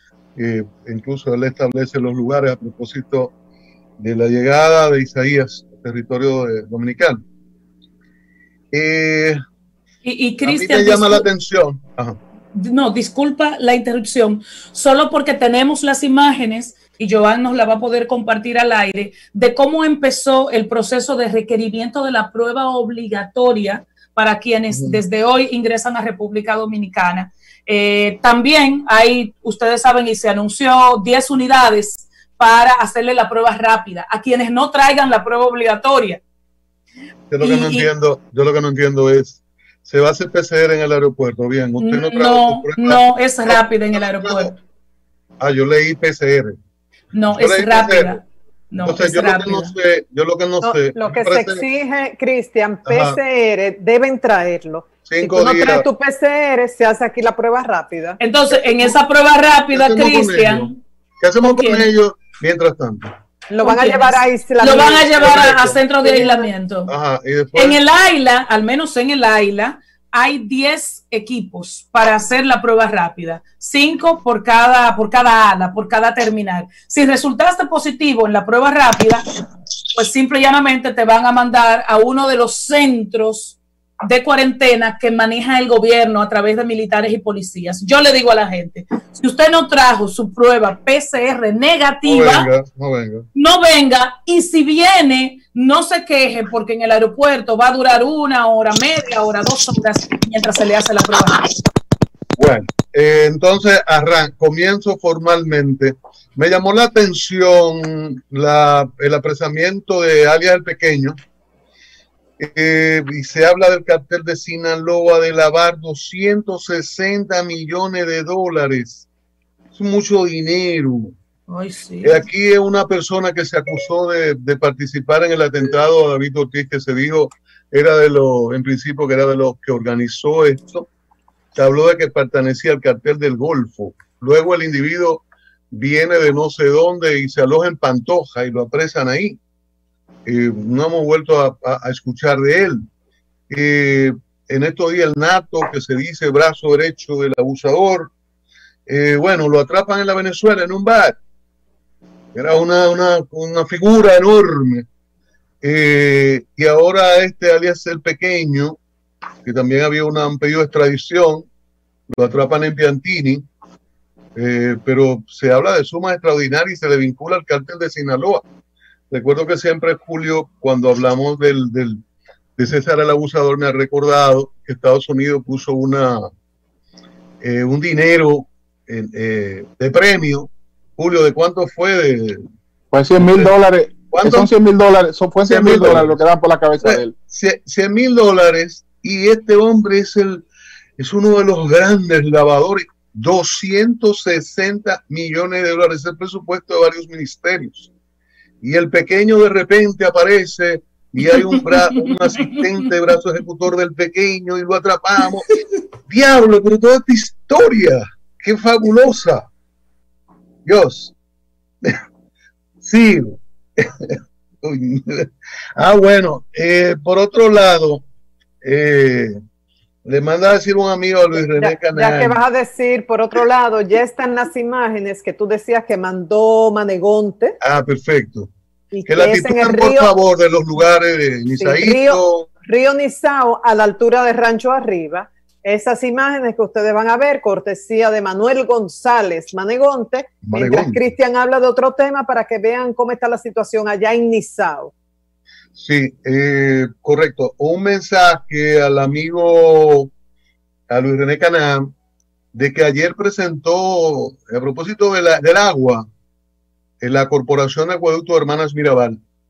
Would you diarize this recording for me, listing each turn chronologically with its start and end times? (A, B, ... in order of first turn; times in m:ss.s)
0:00.4-0:03.3 A
0:04.0-0:07.2 A
0:08.7-0:09.4 A
0:10.0-0:11.3 B
0:10.4-0:12.2 A
0:12.5-0:36.2 B
0:24.7-0:25.0 A
0:37.3-0:44.5 A
0:37.4-0:37.9 B
0:41.8-0:44.6 B
0:45.4-0:46.6 A
0:47.1-0:49.7 B
0:47.3-0:48.2 A
0:48.8-0:51.6 A
0:50.6-0:58.2 C
0:52.9-0:53.2 A
0:55.1-0:55.9 A
0:58.2-1:00.7 B
0:59.7-1:03.1 A
1:01.4-1:01.9 B
1:03.5-1:05.5 C
1:03.6-1:06.9 B
1:05.2-1:05.8 A
1:06.0-1:06.5 C
1:06.9-1:07.8 A
1:07.6-1:19.4 B
1:19.9-1:32.5 B
1:32.0-1:33.3 A
1:33.4-1:41.5 B
1:42.4-1:51.2 A
1:52.4-1:59.1 A
1:59.7-2:01.2 A
2:01.5-2:02.2 B
2:02.0-2:10.9 A
2:11.5-2:19.4 A
2:20.3-2:22.9 A
2:23.5-2:28.1 A
2:28.9-2:31.2 A
2:32.3-2:34.9 A
2:35.6-2:38.8 A
2:39.4-2:41.5 A
2:42.1-2:43.5 A
2:44.4-2:48.4 A
2:49.1-2:52.0 A
2:52.6-2:56.3 A
2:57.4-3:02.4 A
3:02.9-3:07.2 D
3:03.2-3:03.5 A
3:04.1-3:04.5 A
3:05.4-3:06.2 A
3:06.8-3:10.4 A
3:11.0-3:17.9 A
3:18.6-3:25.5 A
3:26.1-3:29.5 A
3:30.6-3:31.1 A
3:32.8-3:38.0 A
3:38.6-3:39.4 A
3:40.0-3:42.4 A
3:41.5-3:47.6 C
3:47.6-3:48.5 A
3:48.9-3:50.1 C
3:49.1-3:52.5 A
3:51.6-4:04.9 C
4:00.4-4:01.0 A
4:05.8-4:10.1 A
4:10.9-4:11.9 A
4:12.5-4:16.1 A
4:17.0-4:19.2 A